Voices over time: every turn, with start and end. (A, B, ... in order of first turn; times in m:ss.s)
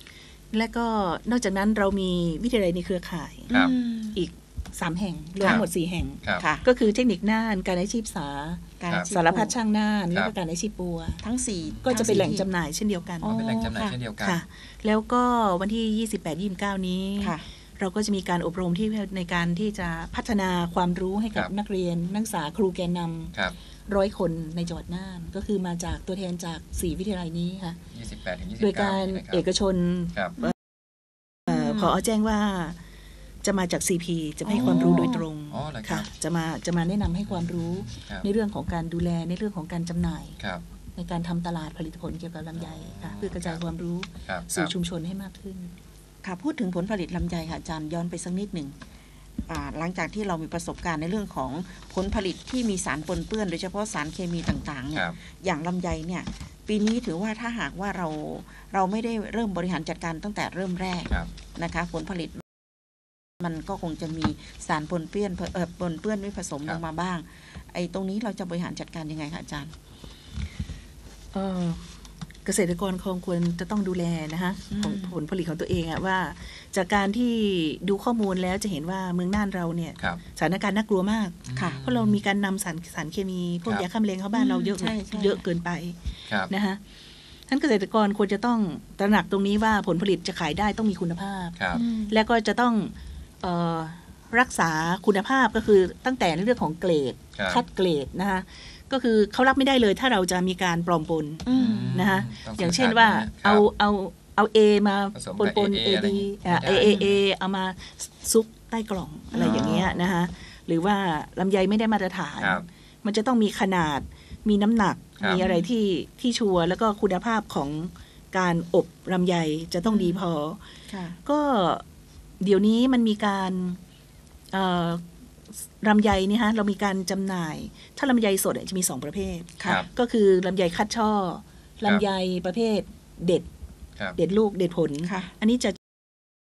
0:00.5-0:03.5 A
0:03.5-0:04.2 B
0:04.2-0:11.2 A
0:05.4-0:05.7 C
0:06.2-0:06.5 C
0:06.4-0:06.7 B
0:08.8-0:09.5 B
0:11.2-0:12.4 B
0:11.6-0:12.3 C
0:11.9-0:13.3 A
0:13.2-0:14.0 B
0:13.2-0:14.4 C
0:14.2-0:23.4 A
0:23.9-0:27.8 A
0:27.9-0:29.5 C
0:28.6-0:30.5 A
0:31.5-0:32.8 A
0:31.5-0:32.0 B
0:33.4-0:40.4 A
0:34.4-0:35.3 B
0:34.5-0:36.1 C
0:37.3-0:38.3 C
0:40.4-0:40.6 C
0:41.0-0:45.8 A
0:42.5-0:43.6 C
0:44.2-0:44.7 C
0:46.2-0:48.7 B
0:49.5-1:02.4 B
0:54.9-0:55.2 C
1:03.4-1:09.7 B
1:11.3-1:11.9 A
1:12.4-1:26.8 A
1:14.7-1:15.2 B
1:21.4-1:22.2 C
1:24.3-1:25.4 B
1:27.5-1:31.6 A
1:31.6-1:31.8 C
1:31.8-1:32.1 B
1:32.1-2:00.6 A
1:37.4-1:37.6 C
1:41.5-1:42.0 B
1:41.5-1:43.6 C
1:45.2-1:47.2 C
1:46.8-1:47.1 B
1:49.3-1:49.8 B
1:49.4-1:50.0 C
1:52.4-1:52.6 C
1:55.4-1:55.7 B
1:59.9-2:00.2 B
2:00.9-2:01.2 B
2:01.2-2:01.8 A
2:02.4-2:03.8 A
2:04.5-2:05.0 A
2:05.6-2:13.5 A
2:09.6-2:09.8 B
2:14.2-2:15.8 A
2:15.0-2:15.3 B